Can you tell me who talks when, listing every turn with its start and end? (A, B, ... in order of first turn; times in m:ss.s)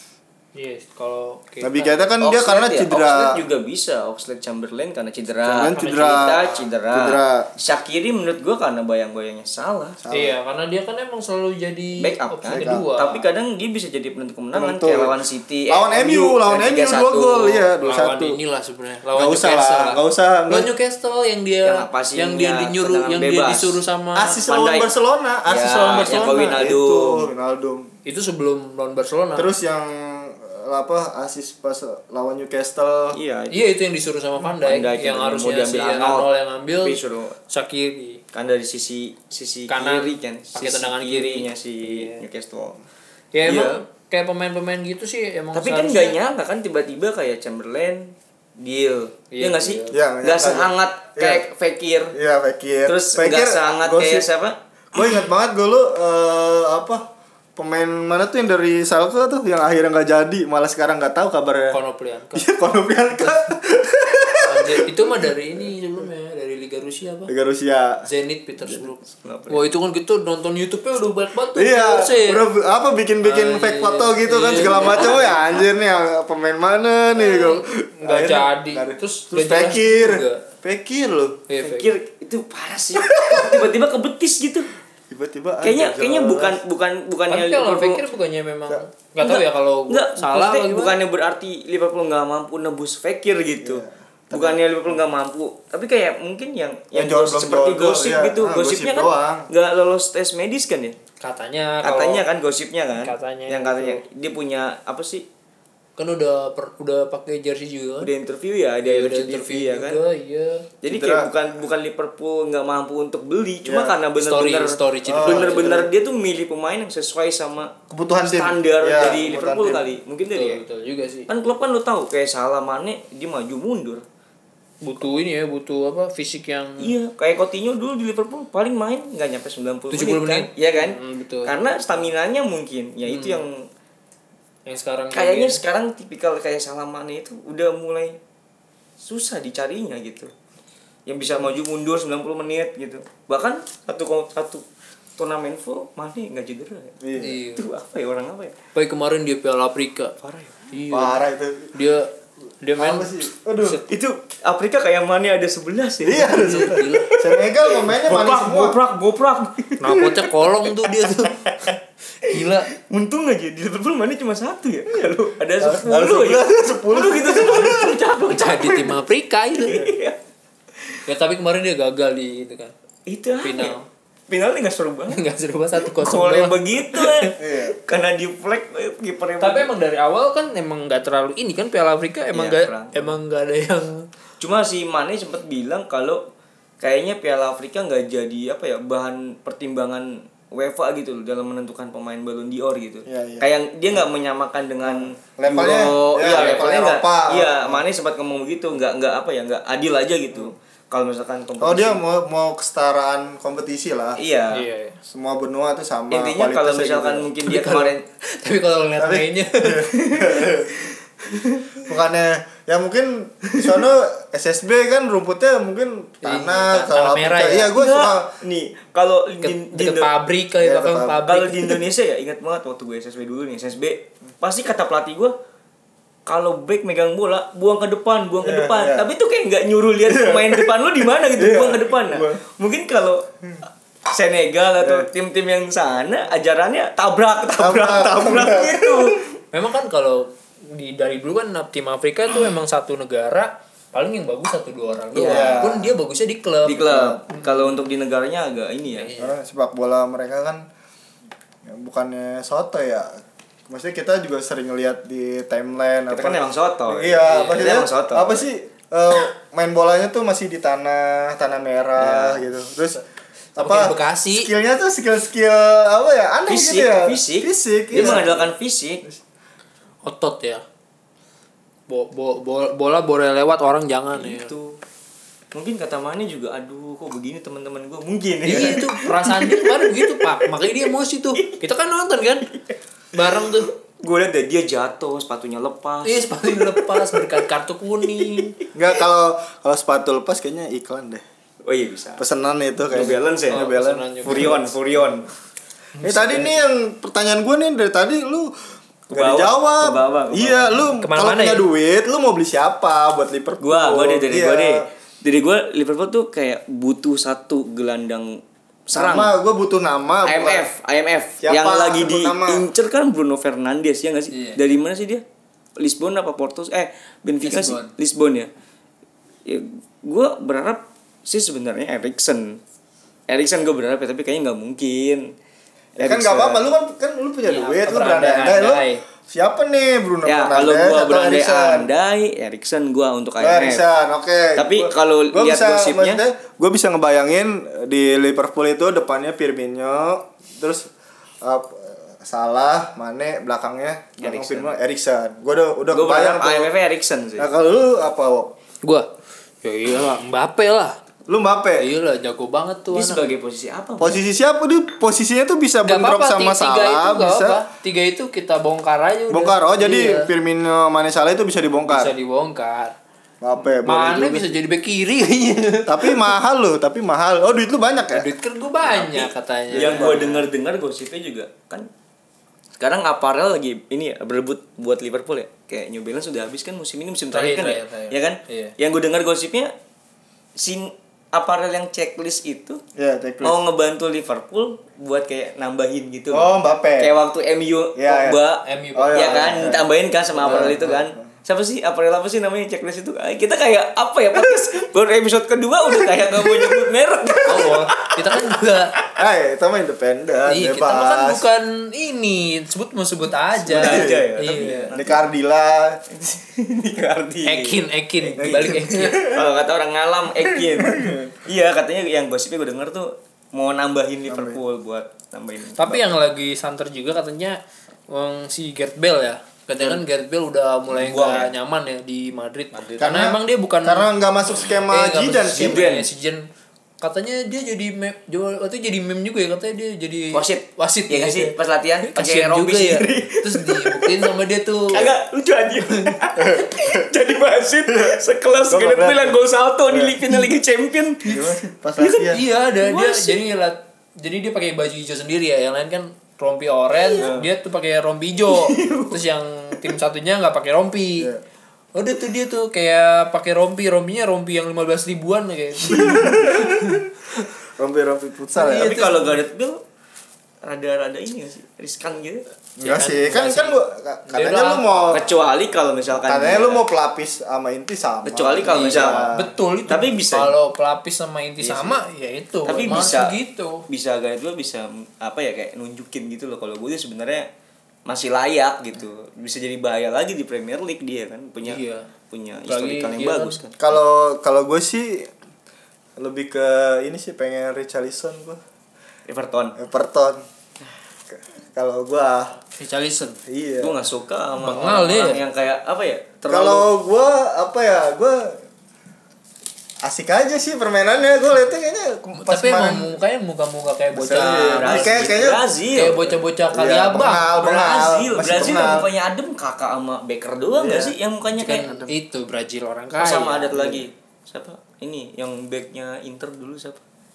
0:00.5-0:02.1 A
0:01.6-0:03.4 B
0:02.2-0:10.0 C
0:05.4-0:07.5 B
0:05.7-0:06.6 A
0:10.0-0:10.3 B
0:10.1-0:13.2 A
0:12.0-0:17.6 C
0:12.5-0:12.8 B
0:14.5-0:15.2 B
0:15.7-0:18.4 B
0:17.8-0:24.4 A
0:19.1-0:20.7 B
0:21.6-0:23.8 C
0:24.1-0:27.9 B
0:24.5-0:24.9 C
0:25.5-0:27.3 C
0:25.8-0:26.6 A
0:28.0-0:29.5 A
0:29.4-0:33.2 B
0:33.1-0:33.7 C
0:33.5-0:38.2 A
0:34.5-0:37.4 C
0:38.3-0:42.8 C
0:39.7-0:42.2 A
0:43.3-0:46.2 A
0:43.4-0:43.8 C
0:45.5-0:52.1 C
0:49.3-0:50.0 A
0:49.9-0:51.4 B
0:52.1-0:54.3 B
0:52.8-0:54.6 C
0:54.9-1:01.8 B
1:01.7-1:02.5 A
1:02.3-1:05.3 B
1:03.1-1:03.5 A
1:04.4-1:07.3 A
1:07.3-1:08.0 B
1:08.0-1:09.0 A
1:09.0-1:09.7 C
1:09.5-1:12.4 A
1:11.5-1:21.4 B
1:13.2-1:15.6 A
1:14.6-1:15.3 C
1:17.1-1:20.4 A
1:21.5-1:21.9 A
1:21.6-1:24.7 C
1:23.1-1:23.7 B
1:25.1-1:26.6 B
1:25.6-1:28.0 C
1:27.3-1:31.0 A
1:29.2-1:41.0 C
1:33.6-1:34.6 B
1:36.9-1:39.5 B
1:41.2-1:42.2 A
1:41.8-1:45.2 C
1:43.0-1:44.0 A
1:46.0-1:48.1 A
1:48.0-1:50.0 C
1:48.8-1:50.6 A
1:50.8-2:00.6 C
1:50.9-1:51.3 B
1:53.6-1:54.0 B
1:54.2-1:55.8 A
1:55.1-1:55.9 B
1:57.9-1:59.9 B
2:00.3-2:01.3 A
2:01.3-2:04.0 C
2:04.8-2:06.9 A
2:06.8-2:13.6 C
2:09.9-2:12.1 A
2:13.0-2:13.4 A
2:14.7-2:15.6 A
2:15.1-2:18.2 C
2:19.0-2:20.3 C
2:21.1-2:24.6 C
2:25.2-2:27.0 C
2:27.0-2:27.4 B
2:27.2-2:27.6 A
2:27.5-2:28.6 C
2:28.7-2:30.1 A
2:30.2-2:30.6 C
2:30.7-2:32.1 A
2:30.9-2:31.7 B
2:32.6-2:33.8 A
2:32.8-2:33.8 B
2:33.8-2:49.0 C
2:36.0-2:38.8 B
2:36.2-2:37.1 A
2:39.8-2:41.4 A
2:42.2-2:42.7 A
2:45.6-2:48.0 B
2:48.2-2:49.9 A
2:49.6-2:50.2 C
2:51.0-2:52.7 A
2:53.1-2:53.7 C
2:53.4-2:53.9 A
2:54.3-2:55.2 C
2:55.1-2:57.3 A
2:55.8-2:59.7 C
2:57.4-2:57.8 B
2:59.4-3:04.1 A
3:02.3-3:03.1 C
3:04.4-3:06.2 C
3:06.8-3:22.0 C
3:13.1-3:14.1 B
3:14.8-3:17.8 B
3:16.3-3:16.7 A
3:21.6-3:24.2 B
3:24.2-3:24.6 C
3:24.5-3:25.0 A
3:25.0-3:27.3 B
3:26.1-3:28.0 C
3:27.4-3:29.9 A
3:29.0-3:30.8 B
3:29.9-3:30.5 C
3:31.3-3:31.8 C
3:31.8-3:38.3 B
3:33.5-3:33.8 C
3:36.2-3:37.7 A
3:37.8-3:40.1 C
3:39.4-3:41.8 A
3:40.6-3:41.2 B
3:41.2-3:45.3 C
3:46.2-3:53.3 C
3:48.4-3:49.1 B
3:50.0-3:52.4 B
3:54.1-3:59.3 C
3:54.8-3:55.1 B
3:57.6-3:59.3 B
3:59.5-4:07.4 A
4:05.1-4:05.7 C
4:05.3-4:05.9 B
4:06.6-4:09.1 C
4:08.9-4:09.4 A
4:09.2-4:10.6 B
4:11.6-4:23.0 B
4:16.1-4:18.4 C
4:17.2-4:17.8 A
4:22.0-4:22.4 C
4:23.6-4:24.5 A
4:23.6-4:28.5 B
4:26.5-4:29.0 C
4:27.9-4:28.4 A
4:30.0-4:30.6 A
4:31.9-4:34.5 A
4:34.1-4:34.8 C
4:35.5-4:41.6 C
4:38.4-4:42.5 A
4:42.5-4:47.4 C
4:43.1-4:43.7 A
4:46.0-4:48.6 A
4:48.0-4:48.7 C
4:48.7-4:51.2 B
4:51.6-4:52.2 C
4:52.2-4:53.7 B
4:52.9-4:55.3 C
4:53.0-4:54.7 A
4:54.3-4:54.6 B
4:56.0-4:56.5 A
4:56.0-4:58.5 B
4:59.1-5:04.9 B
4:59.1-5:00.9 C
5:01.0-5:01.6 A
5:03.6-5:09.3 C
5:08.9-5:10.6 B
5:10.2-5:15.2 C
5:11.4-5:12.7 B
5:14.3-5:14.6 A
5:15.8-5:18.5 C
5:17.4-5:17.9 A
5:19.4-5:22.6 C
5:23.3-5:25.3 C
5:26.0-5:26.7 C
5:26.0-5:31.9 B
5:27.4-5:29.0 A
5:30.2-5:33.8 C
5:33.4-5:40.9 B
5:34.6-5:36.2 C
5:41.4-5:46.7 B
5:44.2-5:44.8 C
5:45.9-5:47.5 C
5:47.4-5:48.5 B
5:49.6-5:51.0 A
5:51.3-5:51.9 B
5:51.8-5:53.3 A
5:52.9-5:54.2 C
5:54.0-5:57.6 B
5:55.8-6:00.3 A
5:59.3-6:02.1 B
6:01.9-6:02.9 A
6:03.4-6:04.5 B
6:03.8-6:06.3 A
6:05.8-6:08.3 B
6:08.0-6:10.5 A
6:08.8-6:11.9 C
6:09.7-6:10.3 B
6:12.8-6:19.7 C
6:17.3-6:18.7 A
6:20.6-6:22.8 C
6:23.0-6:23.6 B
6:23.4-6:39.1 C
6:26.3-6:27.1 B
6:28.0-6:28.4 B
6:28.6-6:29.7 A
6:28.9-6:31.2 B
6:30.4-6:30.9 A
6:35.9-6:36.9 B
6:37.4-6:39.0 A
6:39.1-6:41.4 B
6:40.5-6:44.9 A
6:43.6-6:44.3 B
6:43.7-6:45.2 C
6:44.9-6:46.0 B
6:46.1-6:56.1 C
6:47.4-6:49.2 A
6:48.4-6:49.5 B
6:50.4-6:51.3 B
6:54.3-6:54.6 B
6:55.8-6:57.6 A
6:58.1-7:04.1 A
7:00.9-7:01.5 C
7:02.7-7:03.1 C
7:03.0-7:05.8 B
7:04.9-7:06.4 A
7:05.6-7:06.1 C
7:07.0-7:15.1 A
7:10.3-7:14.3 C
7:14.9-7:21.3 C
7:16.4-7:17.0 B
7:18.7-7:20.2 B
7:21.2-7:22.4 B
7:22.0-7:23.4 C
7:22.2-7:31.3 A
7:27.0-7:27.5 C
7:28.5-7:29.2 C
7:31.9-7:37.1 A
7:35.9-7:39.0 B
7:38.5-7:39.4 A
7:38.7-7:39.8 C
7:40.6-7:42.4 C
7:42.8-7:45.2 B
7:42.8-7:43.8 A
7:44.3-7:45.1 A
7:45.1-7:46.8 C
7:46.2-7:49.5 B
7:48.2-7:49.3 C
7:48.6-7:53.8 A
7:49.9-7:50.5 C
7:51.6-7:52.0 C
7:52.6-7:57.5 C
7:58.0-8:03.8 C
8:01.6-8:02.1 A
8:02.7-8:03.6 A
8:03.8-8:05.3 B
8:06.2-8:08.6 B
8:09.3-8:09.8 C
8:09.8-8:10.4 B
8:11.3-8:12.6 B
8:12.8-8:13.4 A
8:13.4-8:14.0 B
8:13.8-8:16.9 C
8:14.6-8:15.4 A
8:16.5-8:18.6 B
8:20.0-8:23.1 B
8:22.4-8:25.3 A
8:24.1-8:25.6 B
8:24.2-8:26.4 C
8:25.9-8:27.5 A
8:26.7-8:29.1 B
8:27.5-8:32.1 C
8:30.8-8:31.2 B
8:31.5-8:34.0 A
8:33.2-8:37.0 C